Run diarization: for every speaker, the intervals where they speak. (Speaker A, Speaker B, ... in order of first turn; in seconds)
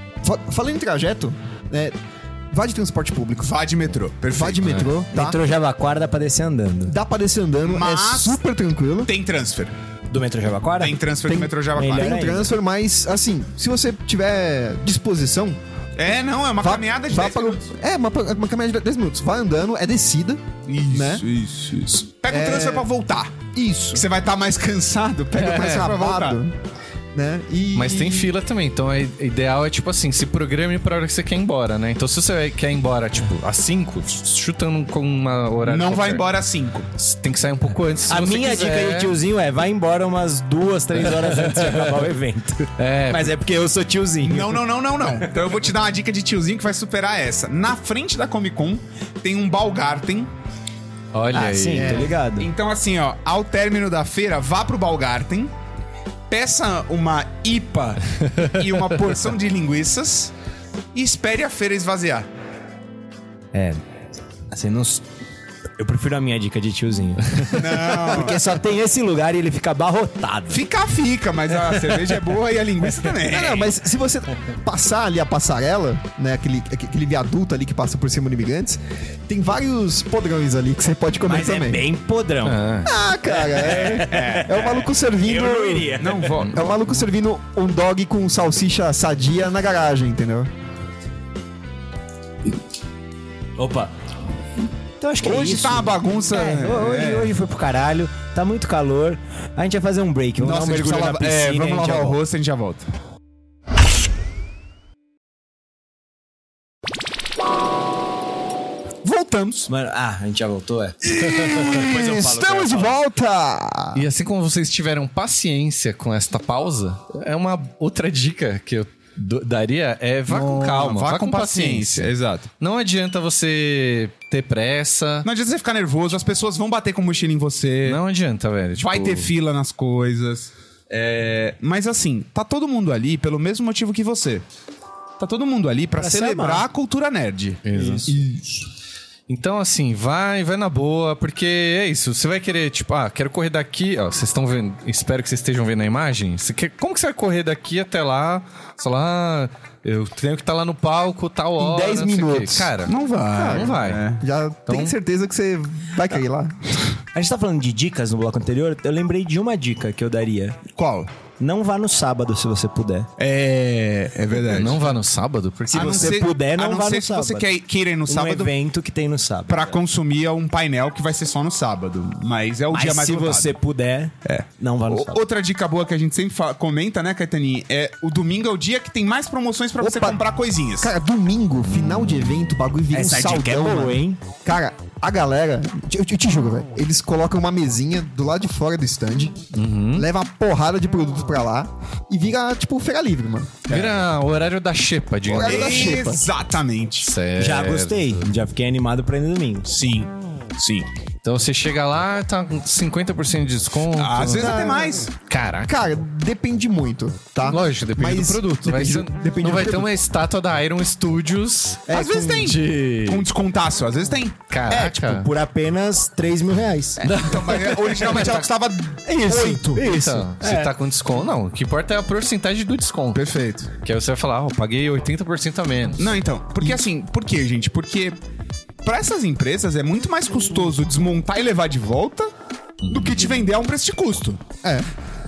Speaker A: 0.2-1.9, 2.5-3.5, 4.3-5.4, 6.9-9.1, 11.3-15.6, 16.6-21.2, 22.3-22.9, 23.5-24.0, 25.4-26.6, 27.1-28.3, 51.8-52.1, 73.2-81.8, 82.8-90.5, 111.0-114.1, 138.1-138.6, 151.6-152.7, 153.4-156.8, 179.8-180.2, 180.8-189.4, 189.9-193.6, 195.3-196.2, 204.3-205.0, 205.7-209.9, 211.9-212.6, 234.6-234.9
Speaker B: 3.4-4.9, 7.6-8.4, 9.0-9.7, 10.8-12.2, 16.0-17.7, 20.7-26.4, 35.6-36.9, 44.2-50.3, 52.4-55.5, 56.3-60.3, 60.9-62.3, 67.5-68.4, 70.5-73.7, 83.7-84.8, 85.9-86.8, 95.2-97.3, 100.4-102.9, 109.0-109.7, 120.3-122.5, 125.2-128.0, 128.8-134.4, 135.2-137.6, 152.9-154.2, 160.7-161.1, 163.2-164.9, 165.7-168.5, 169.5-173.6, 174.2-180.9, 193.7-194.0, 195.4-197.1, 199.7-200.9, 204.0-205.1, 211.9-214.4, 217.0-219.9, 223.1-223.7, 226.0-228.2, 228.8-232.3, 232.9-234.4
Speaker C: 4.6-4.9, 25.3-26.0, 27.8-36.2, 37.0-39.1, 41.1-42.0, 42.8-43.3, 51.1-52.1, 82.4-82.9, 114.0-125.3, 127.8-129.3, 137.6-138.1, 139.3-154.1, 154.7-154.9, 164.4-166.2, 189.5-190.1, 193.7-196.1, 197.0-198.2, 201.2-204.7, 205.3-205.7, 207.4-213.3, 214.5-215.3, 217.1-218.5, 219.7-223.2, 223.8-226.2, 232.8-233.3
Speaker D: 5.1-6.9, 10.1-11.0, 11.7-12.5, 38.1-44.6, 51.3-52.5, 63.5-63.8, 64.5-65.0, 65.8-70.6, 81.3-82.6, 83.3-86.3, 93.6-93.9, 95.0-102.2, 109.7-113.0, 136.0-136.7, 137.7-138.2, 157.2-160.6, 161.4-163.1, 165.7-167.5, 168.1-169.8, 172.7-175.2, 182.9-184.2, 197.4-199.7, 214.7-217.0, 219.1-220.7